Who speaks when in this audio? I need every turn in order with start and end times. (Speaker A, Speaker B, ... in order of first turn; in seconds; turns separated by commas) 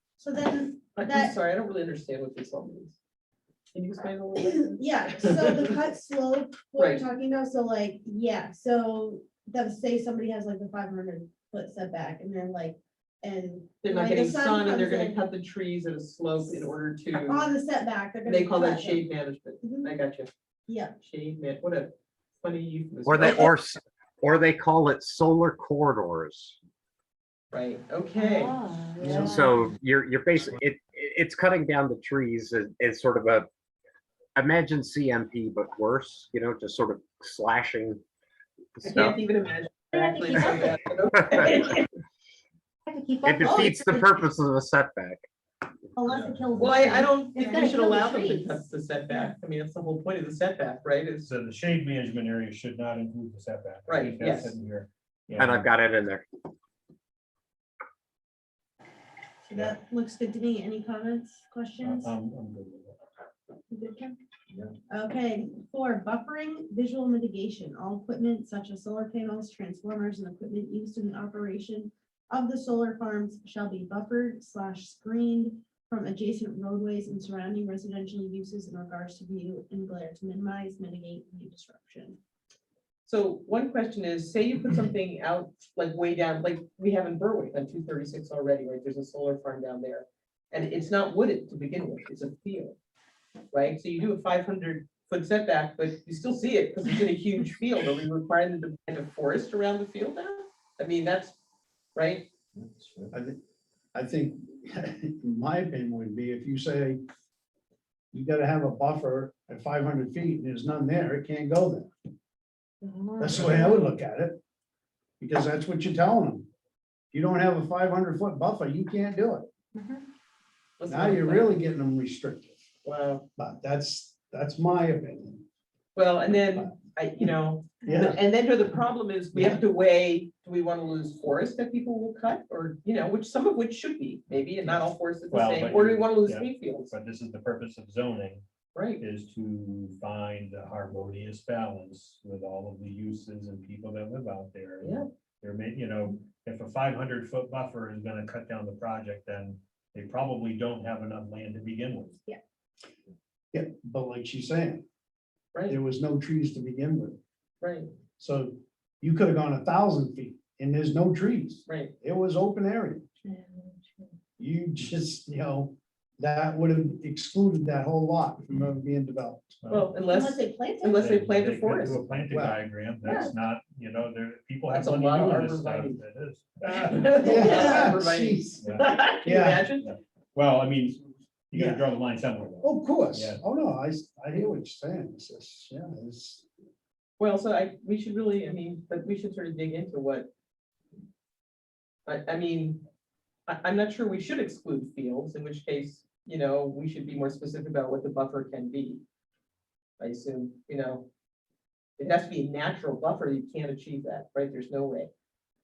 Speaker A: 0.2-1.4, Speaker B: 1.0-3.0, Speaker B: 3.7-5.7, Speaker A: 4.4-15.2, Speaker B: 6.8-7.0, Speaker B: 13.8-17.5, Speaker A: 16.4-19.1, Speaker B: 18.2-20.3, Speaker A: 19.6-19.9, Speaker A: 20.7-20.9, Speaker B: 21.0-23.6, Speaker C: 23.1-26.6, Speaker B: 27.5-29.1, Speaker D: 28.2-29.7, Speaker C: 29.0-33.5, Speaker C: 34.4-38.0, Speaker C: 38.8-39.2, Speaker B: 38.8-41.9, Speaker D: 39.9-40.7, Speaker D: 42.9-44.1, Speaker C: 43.2-45.3, Speaker A: 43.4-43.7, Speaker A: 46.0-47.9, Speaker B: 46.6-51.3, Speaker D: 47.3-48.6, Speaker E: 51.2-55.7, Speaker B: 53.9-54.5, Speaker C: 55.4-56.3, Speaker A: 59.5-62.1, Speaker E: 61.8-63.0, Speaker A: 63.7-64.1, Speaker A: 64.9-82.2, Speaker B: 83.1-92.8, Speaker B: 93.5-101.4, Speaker B: 102.0-102.3, Speaker F: 103.1-103.4, Speaker F: 103.9-107.0, Speaker F: 108.1-111.9, Speaker D: 112.8-113.9, Speaker F: 113.2-114.4, Speaker F: 115.2-116.5, Speaker F: 117.1-119.5, Speaker B: 120.8-121.6, Speaker F: 120.9-122.6, Speaker B: 122.8-123.2, Speaker F: 123.4-125.4, Speaker B: 126.0-136.9, Speaker F: 127.8-128.2, Speaker E: 135.3-138.4, Speaker B: 138.7-139.0, Speaker E: 139.0-152.2, Speaker B: 144.8-145.1, Speaker F: 153.5-154.8, Speaker F: 155.7-157.2, Speaker B: 157.6-157.9, Speaker F: 158.2-163.1, Speaker B: 161.7-161.9, Speaker D: 163.3-164.1, Speaker F: 164.4-169.6, Speaker E: 169.6-169.9, Speaker B: 169.7-172.1, Speaker A: 170.0-171.1, Speaker E: 171.0-177.6, Speaker F: 172.3-172.6, Speaker A: 173.0-173.3, Speaker B: 174.7-176.0, Speaker B: 176.7-179.9, Speaker F: 177.2-178.5, Speaker E: 178.6-178.8, Speaker F: 179.2-179.7, Speaker E: 179.8-183.4, Speaker F: 181.5-181.9, Speaker F: 182.6-186.4, Speaker B: 187.2-190.3, Speaker B: 192.1-192.8, Speaker B: 193.5-199.0, Speaker B: 200.0-201.0, Speaker B: 202.0-205.1